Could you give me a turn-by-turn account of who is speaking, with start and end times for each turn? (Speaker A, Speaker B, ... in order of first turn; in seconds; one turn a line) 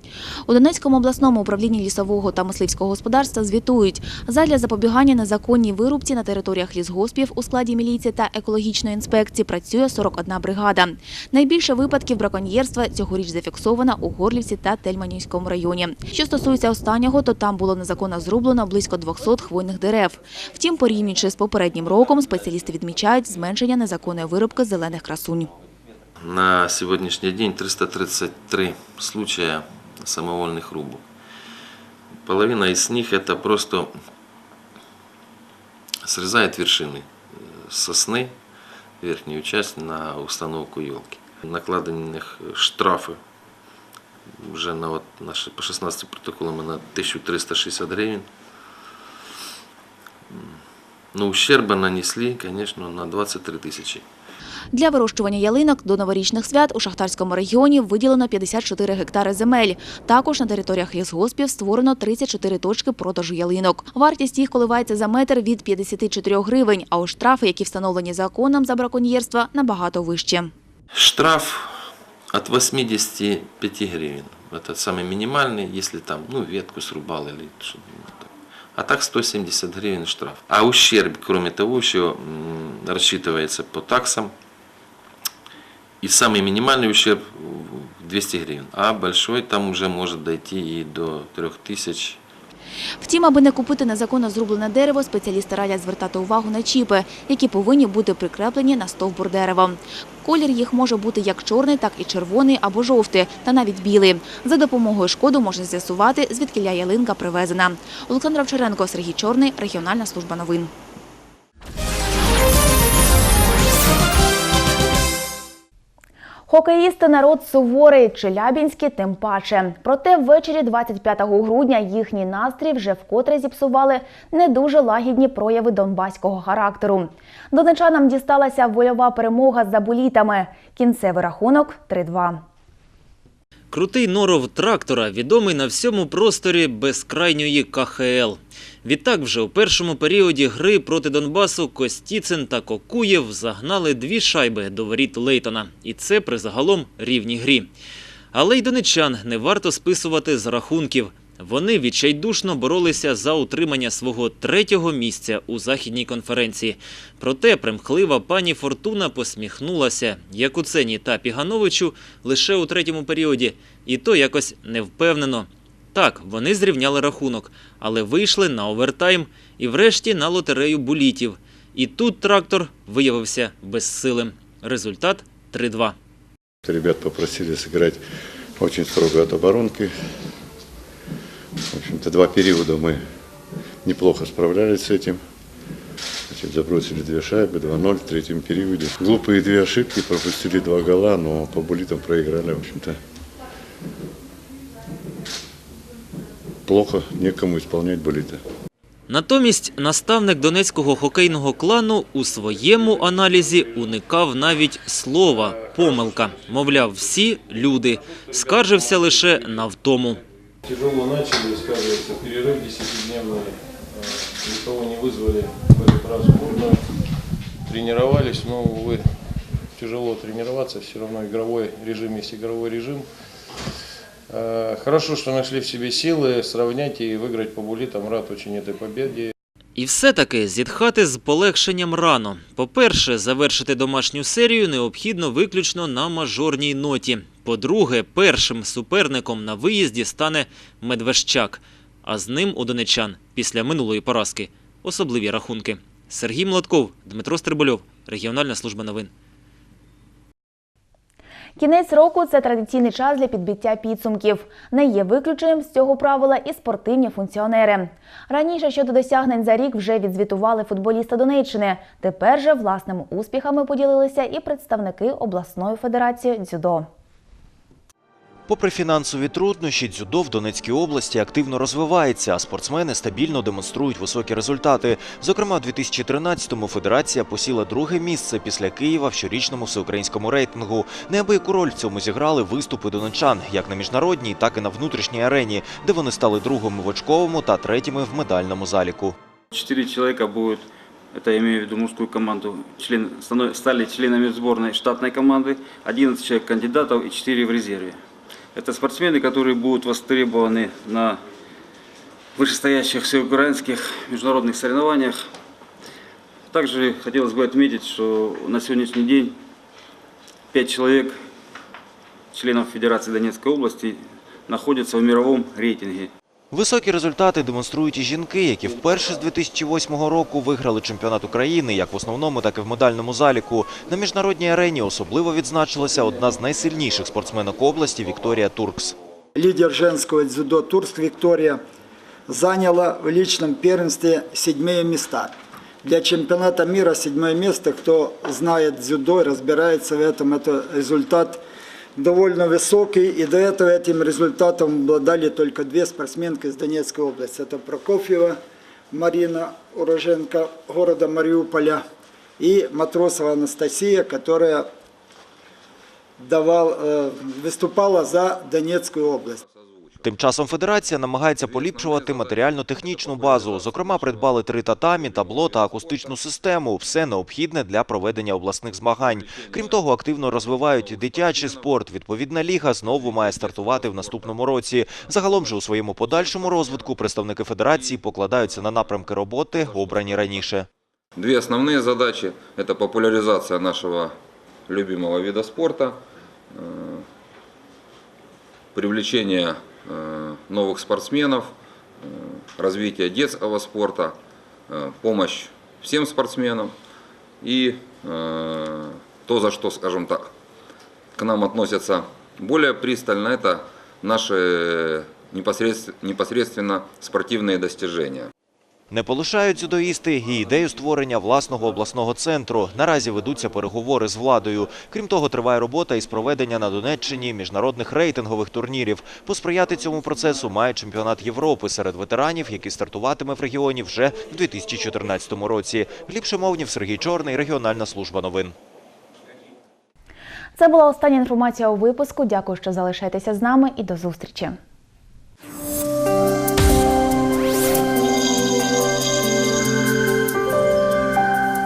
Speaker A: 0.5-25.5
Speaker B: 26.2-31.0
Speaker B: 32.3-33.9
Speaker B: 36.0-38.4
Speaker B: 39.0-43.2
Speaker B: 44.4-48.3
Speaker B: 50.3-50.6
Speaker B: 51.1-54.0
Speaker A: 54.7-70.5
Speaker B: 70.9-71.7
Speaker B: 72.3-84.3
Speaker B: 86.0-92.2
Speaker A: 93.0-110.7
Speaker A: 116.5-132.4
Speaker C: 133.7-147.7
Speaker C: 148.3-175.9
Speaker D: 176.7-178.0
Speaker D: 178.6-179.9
Speaker D: 181.7-183.0
Speaker D: 183.8-185.2
Speaker D: 186.3-193.0
Speaker D: 196.7-198.4
Speaker C: 199.1-210.2
Speaker E: 205.5-206.5
Speaker E: 208.1-209.6
Speaker E: 210.7-216.8
Speaker E: 217.7-219.0
Speaker E: 219.8-223.1
Speaker E: 224.3-229.3
Speaker C: 229.8-249.1
Speaker A: 251.6-266.9
Speaker F: 268.5-289.2
Speaker G: 289.5-298.0
Speaker G: 298.6-301.2
Speaker G: 302.4-305.2
Speaker G: 306.5-309.4
Speaker G: 310.5-311.2
Speaker G: 312.3-316.1
Speaker F: 316.5-328.9
Speaker H: 329.3-331.6
Speaker H: 332.3-351.8
Speaker H: 352.4-354.7
Speaker H: 356.2-359.4
Speaker I: 359.4-360.0
Speaker F: 360.0-380.7
Speaker I: 361.4-364.3
Speaker I: 364.9-366.1
Speaker I: 369.2-369.8
Speaker I: 370.4-371.7
Speaker I: 372.9-374.3
Speaker I: 376.1-376.9
Speaker I: 379.6-380.4
Speaker I: 381.2-384.1
Speaker I: 384.7-386.0
Speaker I: 386.5-387.0
Speaker I: 388.7-394.2
Speaker I: 394.7-396.7
Speaker I: 397.4-400.3
Speaker I: 401.2-408.3
Speaker F: 408.9-428.5
Speaker A: 430.6-434.6